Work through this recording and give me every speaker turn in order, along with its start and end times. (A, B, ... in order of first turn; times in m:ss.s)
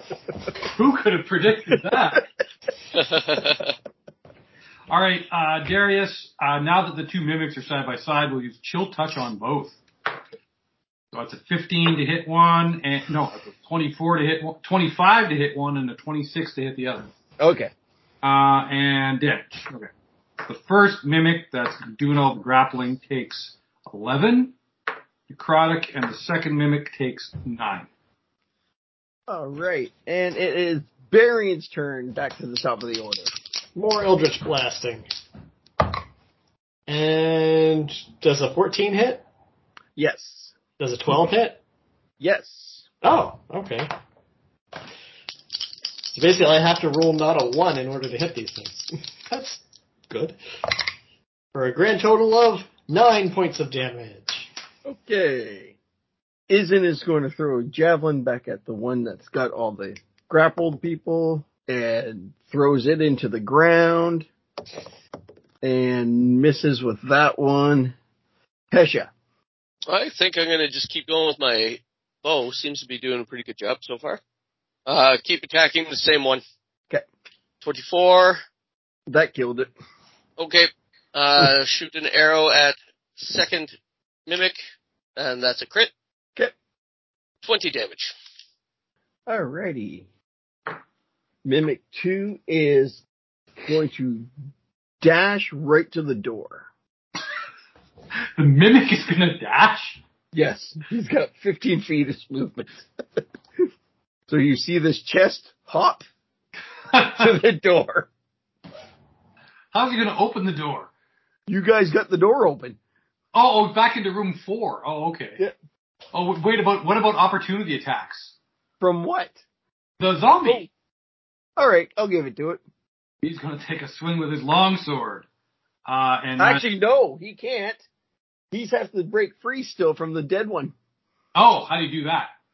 0:00.6-0:02.2 A
0:02.9-0:03.7 B
0:04.9-0:09.8 A
0:11.1-0:17.1 A
0:17.4-0:17.7 C
0:18.2-0:19.9 A
0:20.4-0:24.5 A
0:25.3-0:27.9 A
0:29.3-0:33.3 C
0:33.8-0:35.1 D
0:36.9-0:39.2 D
0:40.0-0:40.5 C
0:40.8-0:41.6 D
0:42.2-0:42.8 C
0:43.0-0:43.9 D
0:46.1-0:50.4 D
0:51.5-0:54.5 D
0:54.8-0:55.8 C
0:56.5-1:04.3 C
1:05.6-1:07.9 C
1:08.7-1:09.1 C
1:09.9-1:14.2 B
1:14.9-1:16.4 B
1:17.6-1:18.4 B
1:19.1-1:19.7 C
1:20.4-1:23.7 B
1:24.3-1:24.6 B
1:25.2-1:25.9 B
1:27.4-1:28.1 B
1:29.3-1:30.0 C
1:31.4-1:33.0 C
1:33.6-1:34.3 C
1:35.0-1:36.7 C
1:38.4-1:40.0 A
1:40.3-1:42.8 C
1:44.3-1:46.0 C
1:46.9-1:47.2 A
1:47.0-1:48.1 C
1:49.7-1:50.9 A
1:51.5-1:52.8 C
1:53.3-1:55.4 A
1:56.1-1:58.3 A
1:58.8-1:59.4 C
2:00.0-2:00.7 A
2:01.6-2:02.6 C
2:03.2-2:05.2 A
2:05.8-2:06.6 A
2:06.4-2:07.8 C
2:08.5-2:10.7 C
2:11.3-2:12.3 A